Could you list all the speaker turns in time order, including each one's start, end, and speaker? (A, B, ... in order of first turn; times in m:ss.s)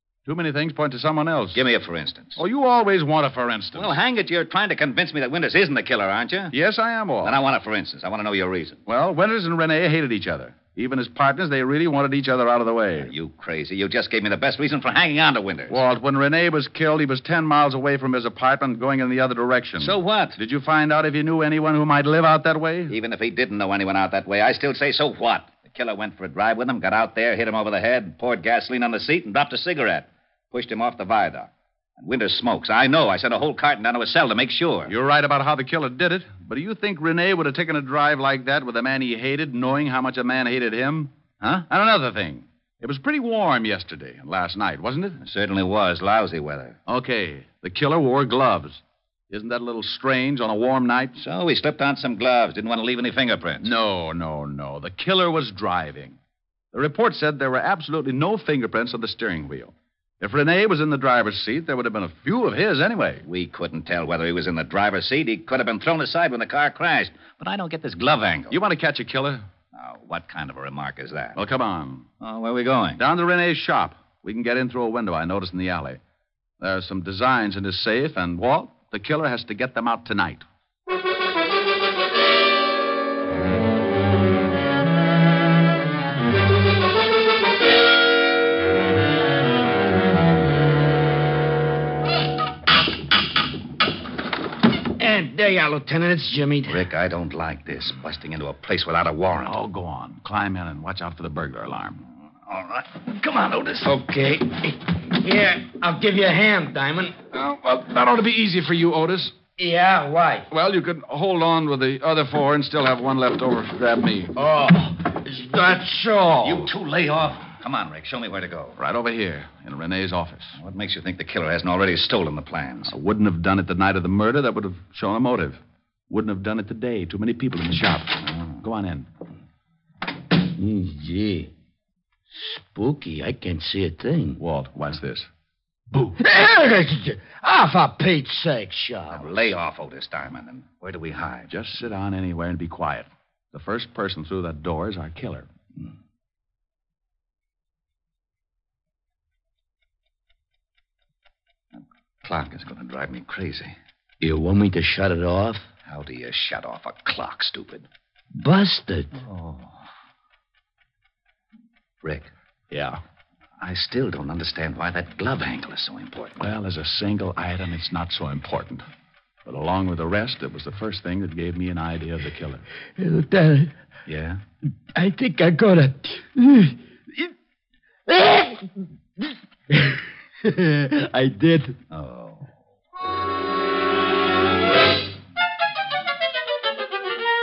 0:00.2-0:01.6 A
0:01.5-0:02.4 B
0:02.4-0:03.9 A
0:03.7-0:06.5 B
0:06.5-0:07.4 A
0:07.2-0:08.8 B
0:08.9-0:13.1 A
0:13.0-0:15.8 B
0:15.7-0:23.0 A
0:19.8-0:20.4 B
0:22.9-0:34.9 B
0:34.9-0:45.2 A
0:45.2-0:46.8 B
0:46.9-0:51.2 A
0:51.2-0:53.7 B
0:53.6-0:56.2 A
0:56.7-1:03.2 A
1:03.2-1:08.6 B
1:08.5-1:09.4 A
1:09.7-1:11.4 B
1:11.4-1:12.1 A
1:12.2-1:13.0 B
1:13.0-1:16.0 A
1:16.6-1:20.4 A
1:35.0-1:36.9 C
1:36.7-1:39.6 B
1:39.4-1:42.0 A
1:42.5-1:43.9 B
1:43.8-1:47.3 C
1:47.3-1:49.4 A
1:49.6-1:50.4 C
1:50.5-1:54.3 A
1:54.4-1:56.7 C
1:56.4-1:58.8 B
1:58.8-2:00.6 A
2:00.6-2:02.9 B
2:02.9-2:09.1 A
2:08.3-2:08.6 B
2:10.4-2:11.5 C
2:12.3-2:14.4 C
2:14.4-2:15.3 A
2:16.2-2:19.4 C
2:19.1-2:21.5 B
2:21.5-2:25.5 A
2:31.7-2:33.8 B
2:34.2-2:35.7 C
2:35.9-2:37.9 B
2:38.4-2:39.2 C
2:39.2-2:39.8 B
2:42.0-2:42.3 B
2:42.7-2:43.0 A
2:43.6-2:46.4 B
2:46.4-2:48.8 A
2:49.4-2:52.6 A
2:53.0-2:53.7 C
2:54.1-2:54.4 B
2:54.9-2:57.3 C
2:58.1-3:01.8 C
3:01.9-3:02.5 B